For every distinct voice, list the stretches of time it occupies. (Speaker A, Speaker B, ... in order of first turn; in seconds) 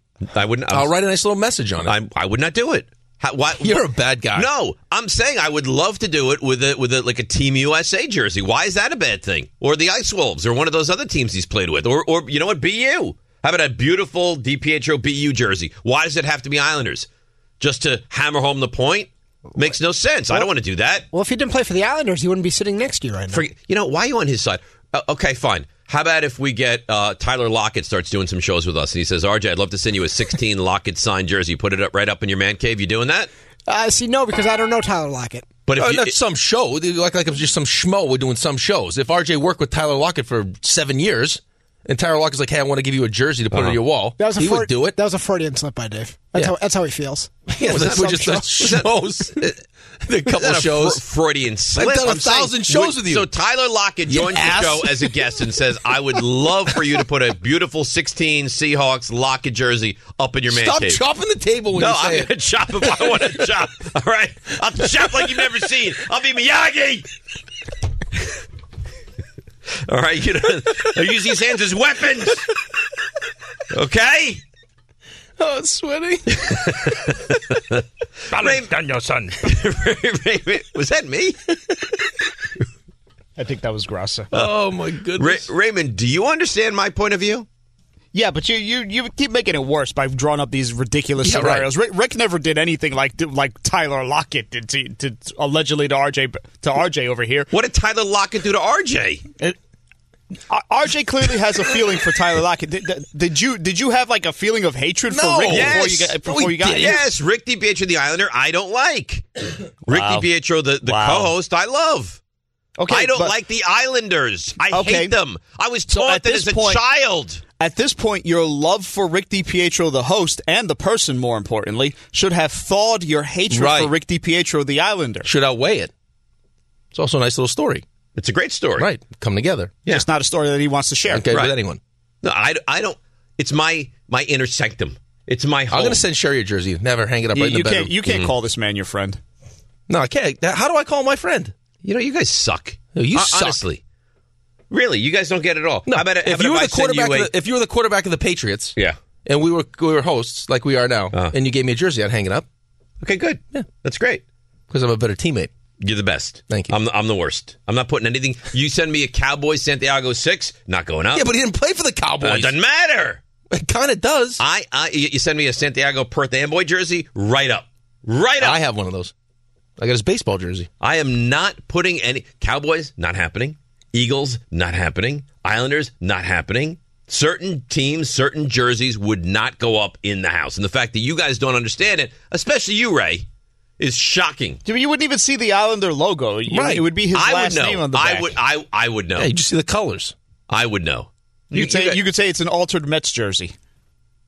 Speaker A: 0.3-0.9, 1.8-17.1, 17.6-21.1, 23.3-33.3, 35.7-36.1, 43.5-43.8, 47.6-49.5, 50.3-61.0, 61.7-67.1, 69.8-72.5, 73.7-74.4, 76.3-78.8, 79.4-81.4, 85.2-87.5, 97.5-99.2, 105.5-106.1, 106.7-109.2, 109.8-112.2, 112.9-117.4, 128.1-128.9, 132.2-136.0, 138.0-138.3, 141.8-143.8, 144.7-147.3, 153.0-154.2, 155.8-161.3, 162.2-163.2, 164.4-168.6, 170.8-183.2, 183.8-184.6, 187.1-189.3, 190.5-192.0
Speaker B: 0.7-1.9, 3.6-4.5, 35.8-45.0, 47.5-51.0, 51.7-53.3, 54.1-55.3, 60.5-63.2, 75.4-77.1, 78.3-79.3, 84.3-85.5, 91.2-91.7, 105.1-107.1, 123.5-123.9, 125.2-125.9, 126.9-127.8, 128.8-129.7, 131.1-131.8, 135.7-138.0, 139.9-141.5, 142.9-143.6, 145.8-152.4, 154.7-155.5, 156.5-156.7, 161.1-162.6, 163.5-164.4, 168.4-169.1, 169.8-170.7, 186.5-186.9, 189.2-190.1
Speaker C: 21.1-23.4, 33.7-35.5, 44.2-48.4
Speaker D: 83.3-84.3, 88.1-97.5, 100.5-107.0, 109.9-110.3, 110.8-111.3, 112.8-113.3, 114.7-115.1, 115.9-116.8, 117.6-125.3, 129.8-131.3, 137.3-139.2, 184.6-188.4, 191.5-193.5